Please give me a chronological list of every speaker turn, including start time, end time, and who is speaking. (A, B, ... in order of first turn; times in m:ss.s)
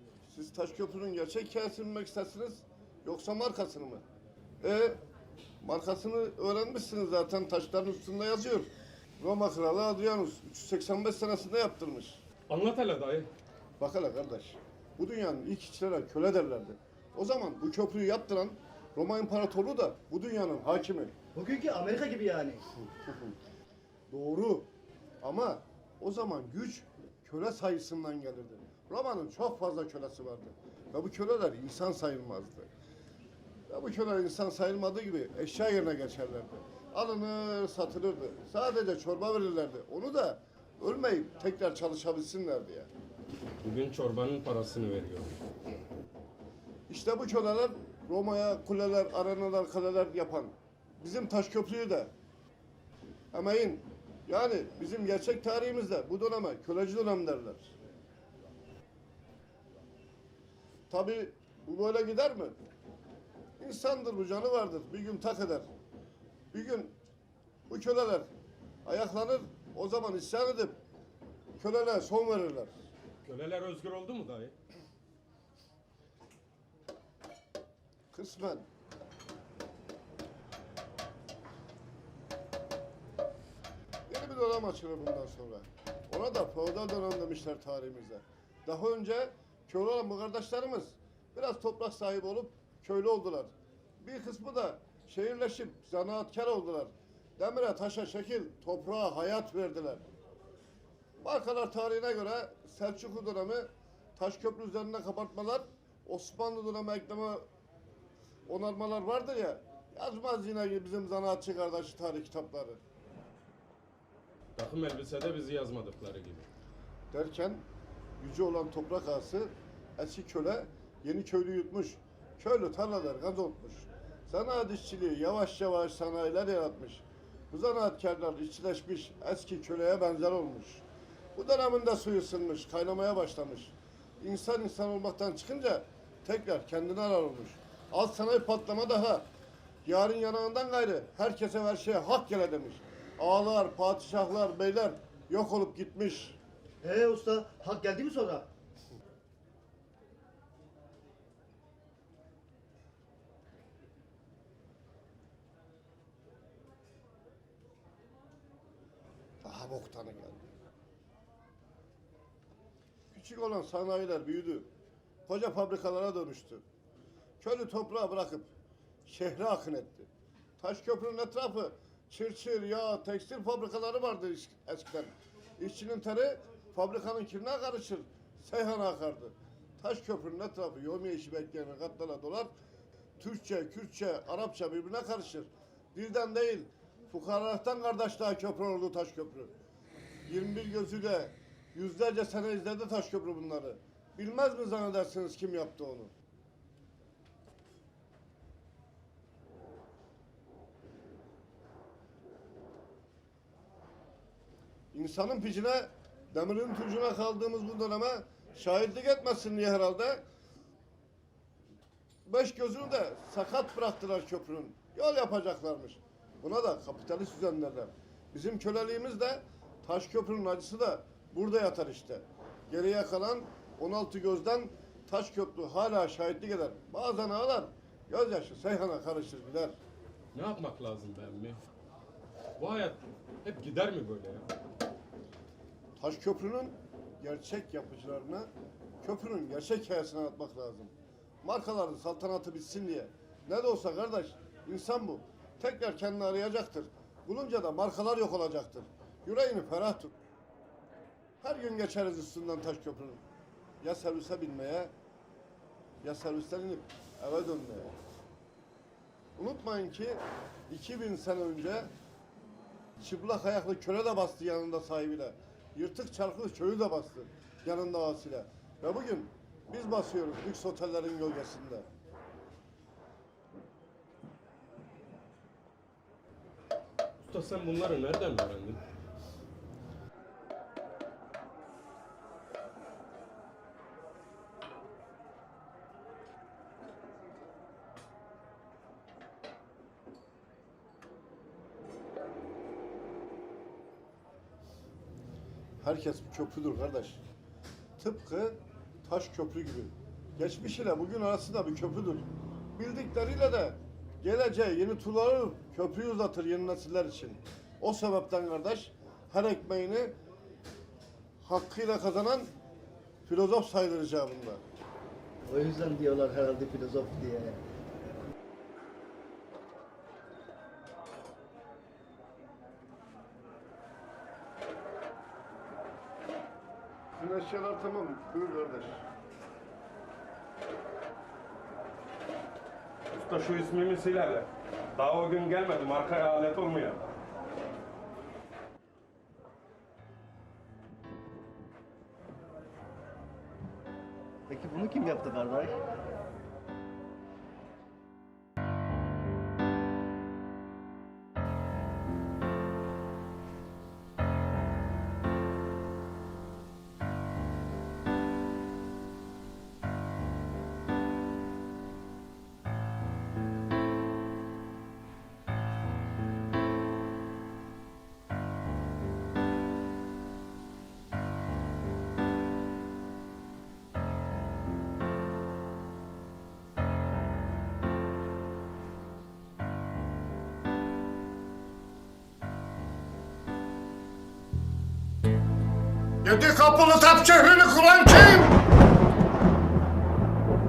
0:00.3-0:04.0 A
0:04.6-0:05.0 A
0:05.6-0:08.7 A
0:09.2-0:12.2 A
0:12.5-0:13.3 B
0:13.8-0:21.1 A
0:21.4-0:22.6 C
0:23.0-0:23.3 A
0:24.1-0:24.7 A
0:25.2-0:32.7 A
0:33.7-0:42.9 A
0:43.6-0:45.4 B
0:46.9-0:52.1 A
0:53.3-0:57.7 A
1:00.9-1:02.6 A
1:03.6-1:05.7 A
1:06.5-1:06.9 A
1:07.7-1:08.3 A
1:08.8-1:10.8 A
1:11.6-1:12.7 A
1:13.2-1:14.6 B
1:18.1-1:18.7 A
1:24.1-1:40.0 A
1:41.2-1:47.4 A
1:48.5-1:52.8 A
1:54.6-1:56.5 B
1:57.1-1:57.6 A
1:58.2-2:10.8 A
2:11.4-2:19.3 A
2:19.8-2:26.4 A
2:26.8-2:28.5 C
2:39.4-2:40.4 A
2:43.1-2:44.7 A
2:45.3-2:46.6 A
2:47.4-2:48.5 A
2:49.1-3:02.5 A
3:03.2-3:09.5 A
3:10.3-3:16.1 A
3:24.9-3:30.2 A
3:32.3-3:49.8 A
3:50.3-3:51.6 B
3:52.6-3:54.5 B
3:56.0-3:58.5 A
3:59.0-4:00.9 A
4:01.4-4:10.1 A
4:11.4-4:13.2 A
4:13.8-4:14.9 A
4:16.0-4:17.9 A
4:19.4-4:21.9 A
4:23.0-4:31.9 A
4:37.2-4:38.8 B
4:55.8-4:57.2 A
4:58.0-5:10.1 A
5:11.4-5:12.5 A
5:13.3-5:14.6 A
5:15.5-5:17.6 C
5:27.2-5:29.0 A
5:33.1-5:37.0 B
5:44.5-5:45.8 C
6:26.2-6:28.6 A